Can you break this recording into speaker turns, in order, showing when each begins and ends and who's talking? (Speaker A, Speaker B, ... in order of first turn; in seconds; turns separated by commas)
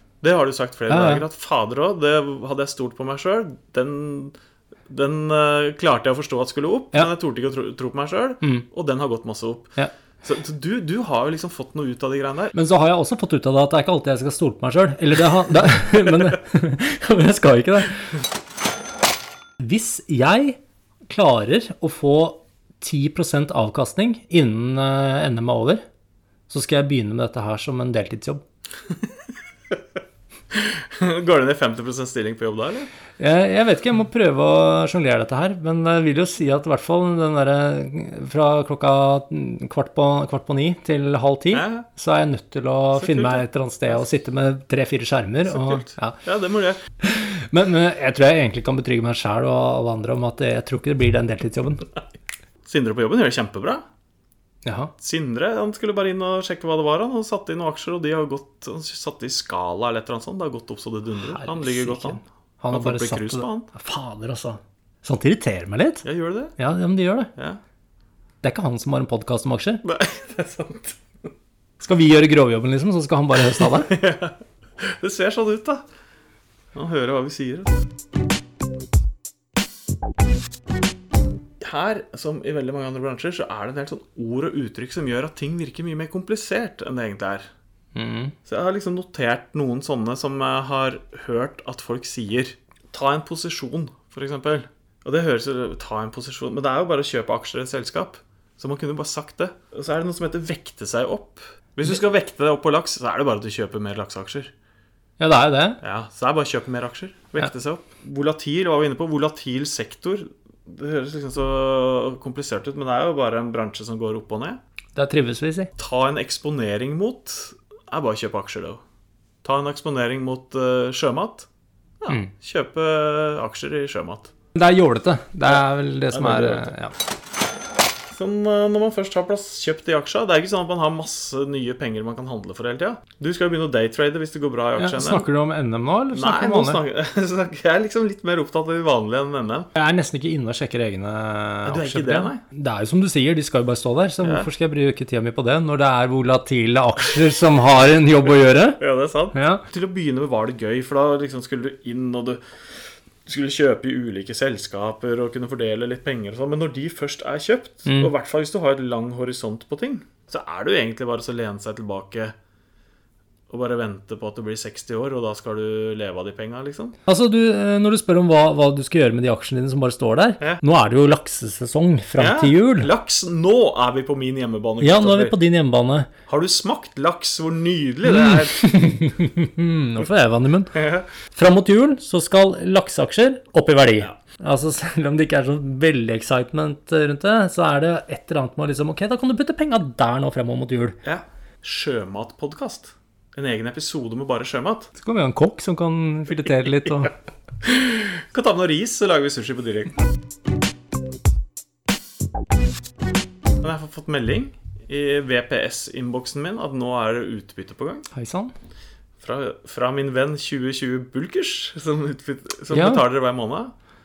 Speaker A: 0.2-4.3, Speaker B: 0.9-1.2, Speaker A: 4.9-12.5, Speaker B: 12.5-18.1, Speaker B: 19.6-25.8, Speaker B: 26.5-28.4, Speaker A: 30.5-32.9, Speaker B: 33.2-46.2, Speaker A: 41.5-41.9, Speaker A: 42.9-44.1, Speaker A: 45.5-46.8, Speaker B: 47.0-51.9, Speaker A: 52.6-53.8, Speaker B: 54.6-54.9, Speaker A: 55.0-62.2, Speaker B: 61.2-66.0, Speaker A: 62.7-63.7, Speaker A: 66.0-66.5, Speaker B: 66.6-67.3, Speaker B: 68.4-69.8, Speaker A: 69.8-71.0, Speaker B: 71.8-73.9, Speaker A: 73.4-75.8, Speaker A: 76.7-77.8, Speaker A: 81.6-87.5, Speaker B: 87.9-88.3, Speaker A: 88.5-104.5, Speaker B: 105.2-105.8, Speaker A: 105.8-114.6, Speaker B: 114.9-115.7, Speaker A: 115.8-118.8, Speaker A: 119.4-121.5, Speaker A: 122.0-124.3, Speaker B: 124.5-126.9, Speaker A: 125.4-126.8, Speaker A: 128.1-135.3, Speaker B: 134.8-136.8, Speaker A: 136.1-139.7, Speaker B: 139.7-148.8, Speaker A: 141.6-142.4, Speaker A: 144.2-144.5, Speaker A: 148.8-152.4, Speaker B: 149.3-149.6, Speaker A: 153.2-162.3, Speaker B: 157.8-158.1, Speaker A: 163.5-166.9, Speaker B: 167.1-172.9, Speaker A: 172.2-175.4, Speaker B: 174.8-176.1, Speaker A: 176.3-178.7, Speaker B: 178.0-180.7, Speaker A: 180.7-181.1, Speaker B: 181.3-191.0, Speaker A: 191.0-194.9, Speaker B: 194.9-197.1, Speaker A: 197.6-200.0, Speaker A: 203.6-208.0, Speaker B: 208.1-208.5, Speaker A: 209.2-213.7, Speaker B: 212.7-213.0